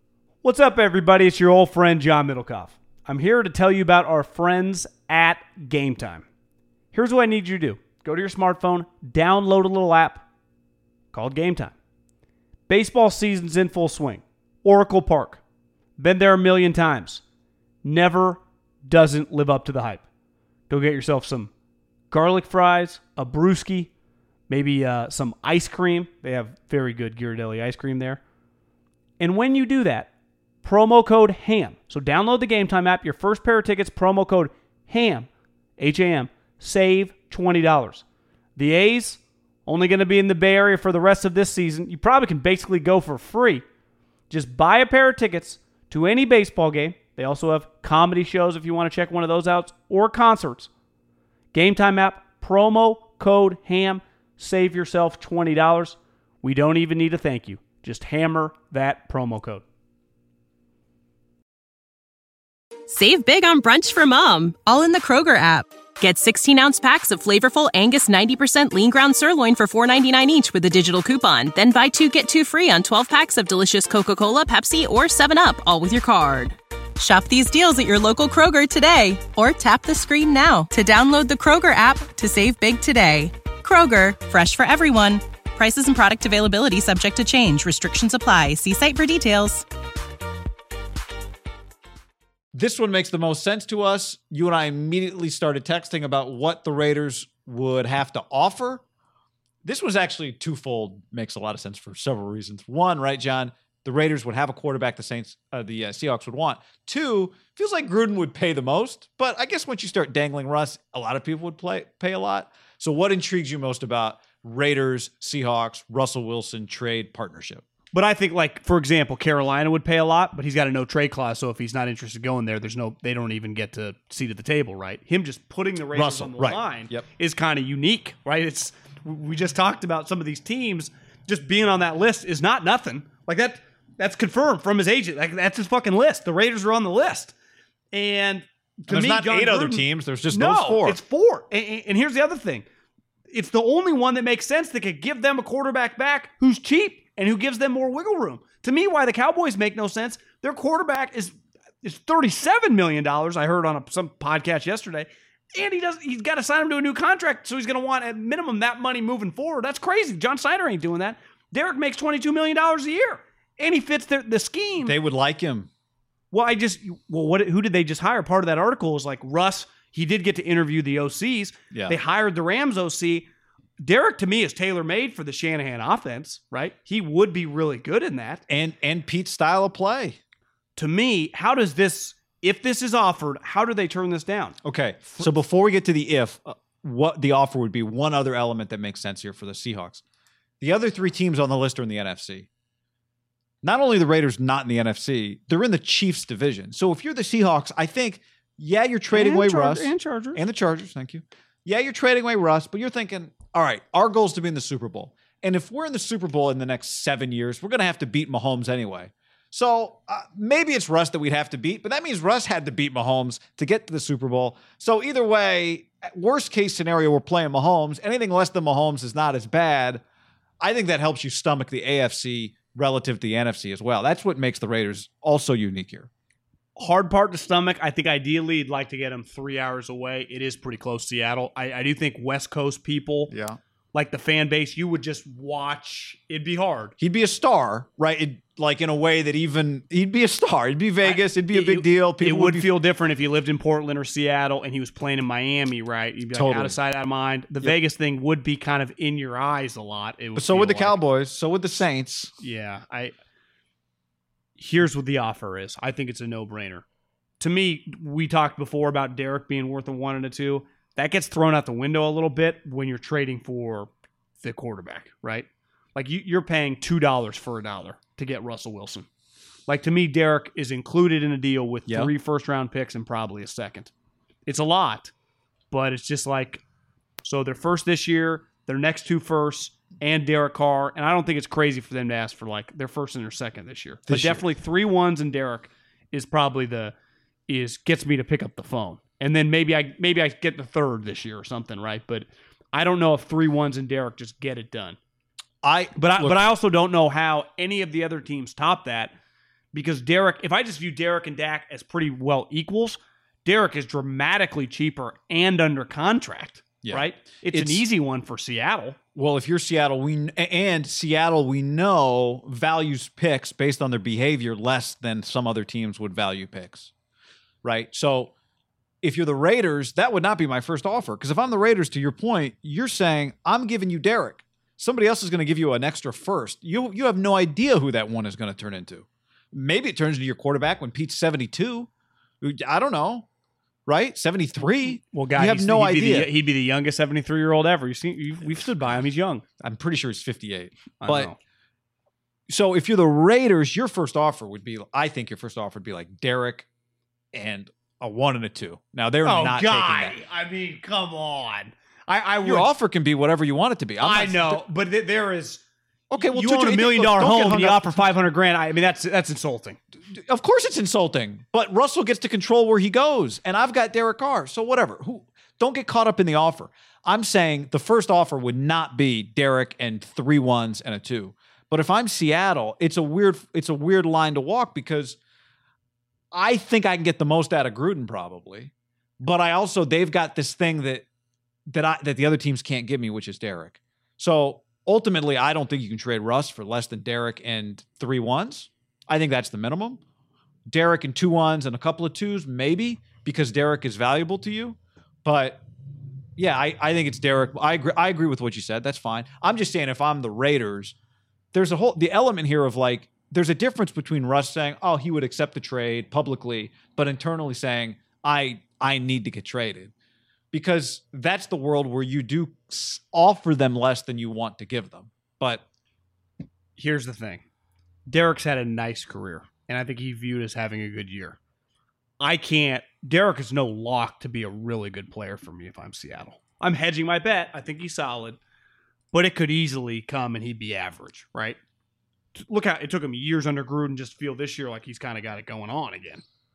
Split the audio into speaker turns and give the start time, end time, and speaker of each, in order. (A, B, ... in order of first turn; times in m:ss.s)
0:00.4-0:06.2 A
0:06.9-0:10.2 A
0:11.1-0:11.7 A
0:12.7-0:15.4 A
0:16.0-0:17.2 A
0:17.8-0:20.0 A
0:20.7-0:21.5 A
0:22.1-0:23.9 A
0:24.5-0:28.2 A
0:29.2-0:30.1 A
0:30.6-0:38.0 A
0:38.6-0:43.6 A
0:44.3-0:50.7 A
0:51.5-0:59.6 A
1:02.9-1:29.6 B
1:32.5-1:38.8 C
1:39.6-1:57.6 C
1:57.9-2:17.3 A
2:05.9-2:07.0 C
2:17.9-2:22.6 A
2:18.9-2:21.0 C
2:23.3-2:45.0 A
2:44.8-2:45.7 C
2:46.3-2:53.3 A
2:51.7-2:52.0 C
2:53.8-2:58.4 A
2:58.5-3:00.2 C
3:00.8-3:04.6 A
3:04.6-3:10.0 C
3:10.6-3:12.5 C
3:13.6-3:40.0 C
3:19.1-3:20.4 A
3:40.6-3:46.1 C
3:46.8-3:53.3 A
3:53.3-3:53.6 C
3:53.9-3:56.9 A
3:57.0-4:02.7 C
4:01.0-4:11.0 A
4:06.3-4:06.8 C
4:10.3-4:12.3 C
4:12.4-4:13.1 A
4:14.6-4:16.8 A
4:17.4-4:23.9 A
4:24.4-4:29.1 A
4:29.7-4:33.9 A
4:31.9-4:32.1 C
4:34.4-4:35.1 A
4:35.7-4:36.6 A
4:37.2-4:46.9 A
4:44.1-4:44.4 C
4:47.5-4:55.0 A
4:55.6-4:56.5 C
4:56.0-4:59.1 A
4:59.7-5:09.0 A
5:06.8-5:07.8 C
5:09.1-5:16.9 C
5:17.6-5:18.3 C
5:19.0-5:31.9 C
5:32.4-5:33.3 C
5:33.8-5:36.3 C
5:35.1-5:39.4 A
5:39.6-5:41.3 C
5:41.0-5:41.4 A
5:42.5-5:46.7 C
5:47.3-5:50.1 C
5:49.2-5:52.7 A
5:52.4-5:54.6 C
5:54.0-5:55.6 A
5:56.1-5:58.0 C
5:56.2-5:59.8 A
6:00.1-6:15.2 C
6:16.3-6:21.0 C
6:21.7-6:30.0 C
6:30.7-6:35.6 C
6:36.4-6:41.0 C
6:41.5-6:49.9 C
6:50.5-6:55.6 C
6:56.8-6:57.4 A
6:58.1-7:01.4 A
7:02.2-7:08.4 A
7:09.1-7:11.6 A
7:12.3-7:16.2 A